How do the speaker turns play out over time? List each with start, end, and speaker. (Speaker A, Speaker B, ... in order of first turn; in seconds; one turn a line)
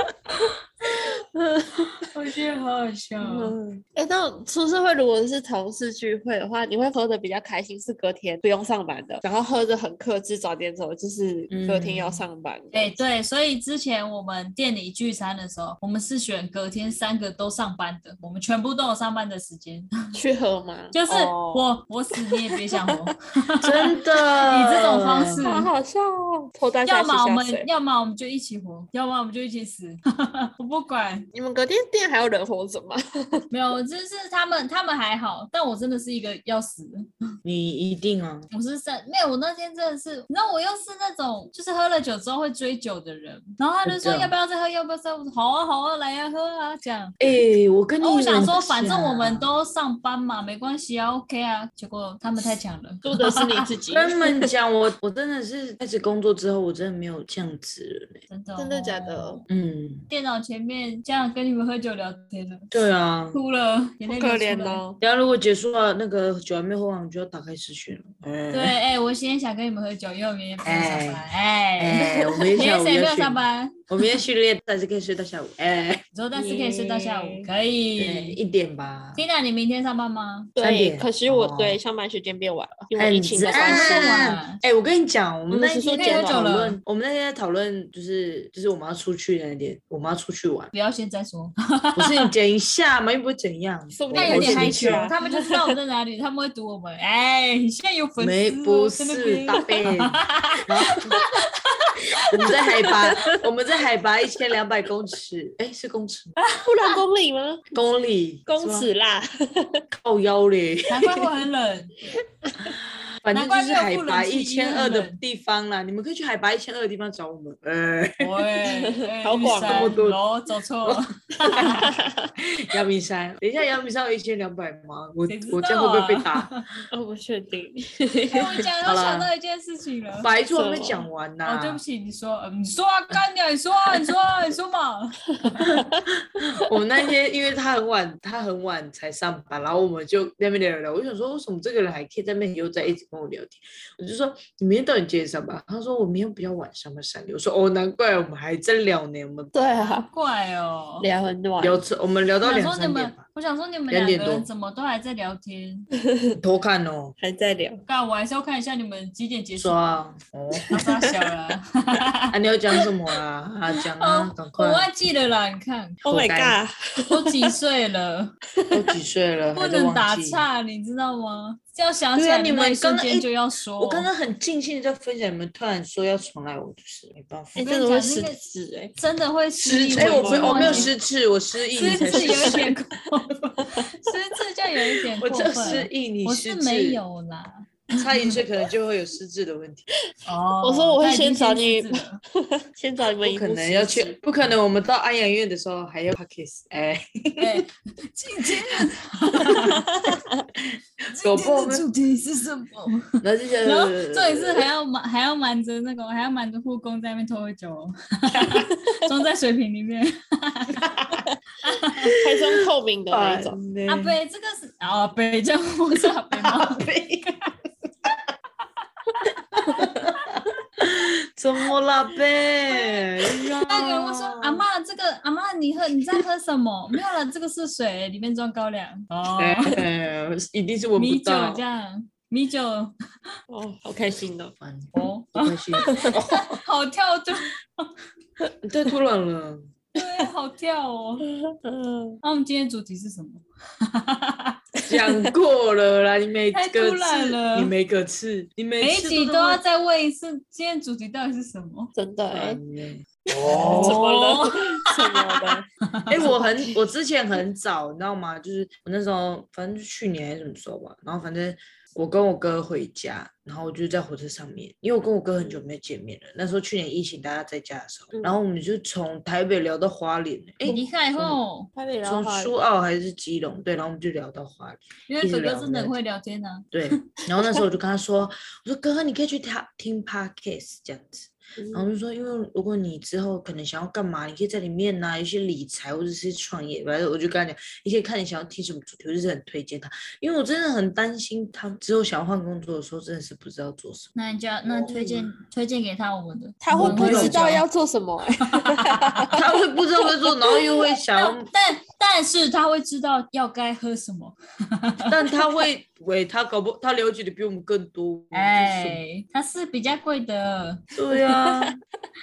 Speaker A: 0.4-2.0
Speaker B: 2.1-3.6
Speaker A: 3.2-13.0
Speaker C: 11.5-12.2
Speaker B: 12.7-19.9
Speaker A: 20.1-23.1
Speaker B: 20.9-25.7
Speaker C: 23.6-25.4
Speaker A: 25.4-27.7
Speaker B: 26.9-31.3
Speaker A: 31.3-33.4
Speaker B: 33.5-37.1
Speaker C: 37.4-38.5
Speaker B: 38.5-47.2
Speaker C: 43.9-44.3
Speaker C: 47.2-49.5
Speaker B: 48.0-53.6
Speaker A: 53.0-54.5
Speaker C: 53.9-58.2
Speaker B: 58.3-59.4
Speaker A: 58.5-59.4
Speaker C: 59.5-60.1
Speaker B: 60.1-62.7
Speaker C: 62.7-63.4
Speaker B: 63.3-64.8
Speaker A: 64.0-65.0
Speaker C: 65.0-68.8
Speaker B: 68.5-74.0
Speaker C: 70.6-71.2
Speaker C: 71.8-76.0
Speaker B: 76.1-78.4
Speaker A: 76.3-77.5
Speaker C: 78.0-79.2
Speaker B: 79.2-80.5
Speaker A: 80.5-84.3
Speaker C: 80.6-81.8
Speaker C: 82.9-90.7
Speaker B: 83.4-84.6
Speaker A: 85.5-86.4
Speaker B: 85.9-86.8
Speaker B: 90.7-92.3
Speaker C: 92.0-95.1
Speaker A: 93.9-95.7
Speaker B: 94.1-102.6
Speaker C: 98.2-101.2
Speaker C: 102.3-106.4
Speaker A: 102.5-103.2
Speaker B: 106.5-107.0
Speaker A: 106.5-107.6
Speaker C: 107.7-108.9
Speaker A: 108.5-109.8
Speaker C: 109.9-111.2
Speaker B: 110.9-112.0
Speaker A: 112.4-112.7
Speaker C: 113.2-118.4
Speaker B: 113.3-115.2
Speaker B: 118.2-122.0
Speaker A: 118.6-119.9
Speaker C: 119.6-120.2
Speaker C: 120.8-126.5
Speaker A: 121.6-122.3
Speaker B: 125.3-126.7
Speaker A: 126.9-128.6
Speaker B: 128.3-130.3
Speaker C: 128.8-129.3
Speaker C: 130.2-131.8
Speaker A: 130.5-131.0
Speaker B: 131.4-135.7
Speaker A: 135.4-136.0
Speaker C: 135.6-149.5
Speaker A: 149.5-150.1
Speaker B: 149.7-151.0
Speaker A: 151.0-151.8
Speaker C: 151.6-153.2
Speaker B: 152.4-155.9
Speaker C: 153.9-154.5
Speaker C: 156.4-157.2
Speaker A: 157.2-157.8
Speaker B: 157.8-159.8
Speaker C: 159.6-160.8
Speaker A: 160.6-161.1
Speaker B: 160.7-162.3
Speaker C: 162.3-164.9
Speaker B: 164.0-166.0
Speaker C: 166.0-166.6
Speaker A: 166.0-167.5
Speaker B: 167.1-168.3
Speaker A: 168.6-168.9
Speaker C: 168.7-170.4
Speaker B: 169.5-174.1
Speaker C: 172.1-177.6
Speaker A: 177.6-178.9
Speaker B: 177.6-178.4
Speaker B: 178.9-180.9
Speaker C: 179.6-182.8
Speaker A: 179.9-180.9
Speaker B: 181.7-188.4
Speaker A: 181.9-182.7
Speaker C: 185.1-187.0
Speaker C: 187.9-189.9
Speaker B: 190.2-192.2
Speaker A: 190.6-194.2
Speaker C: 193.2-197.7
Speaker B: 197.4-200.2
Speaker C: 199.3-199.8
Speaker A: 199.5-200.4
Speaker C: 200.7-201.8
Speaker B: 201.1-211.0
Speaker C: 203.2-204.7
Speaker C: 210.8-211.2
Speaker B: 211.6-212.2
Speaker A: 212.2-213.6
Speaker C: 213.1-214.2
Speaker B: 213.9-216.8
Speaker C: 216.3-217.3
Speaker C: 219.5-224.7
Speaker B: 222.7-229.8
Speaker C: 229.4-231.6
Speaker B: 231.0-232.9
Speaker A: 233.5-234.5
Speaker C: 234.6-236.6
Speaker B: 234.9-237.9
Speaker C: 238.6-239.7
Speaker B: 239.9-241.2
Speaker A: 241.6-242.2
Speaker B: 242.2-244.6
Speaker C: 244.8-249.6
Speaker B: 246.5-247.7
Speaker B: 248.8-251.9
Speaker A: 251.9-252.6
Speaker C: 252.3-254.1
Speaker A: 253.3-256.8
Speaker B: 253.5-256.2
Speaker C: 256.1-271.4
Speaker A: 268.1-268.4
Speaker B: 270.7-271.7
Speaker A: 271.7-272.5
Speaker C: 272.0-275.9
Speaker B: 275.1-276.9
Speaker C: 276.7-294.1
Speaker A: 281.6-281.9
Speaker B: 294.1-297.6
Speaker C: 294.6-295.2
Speaker A: 296.6-299.4
Speaker C: 296.7-297.5
Speaker B: 298.6-299.3
Speaker C: 299.3-301.5
Speaker B: 301.2-305.2
Speaker C: 305.1-309.0
Speaker B: 308.3-310.8
Speaker C: 310.9-311.8
Speaker A: 311.1-311.7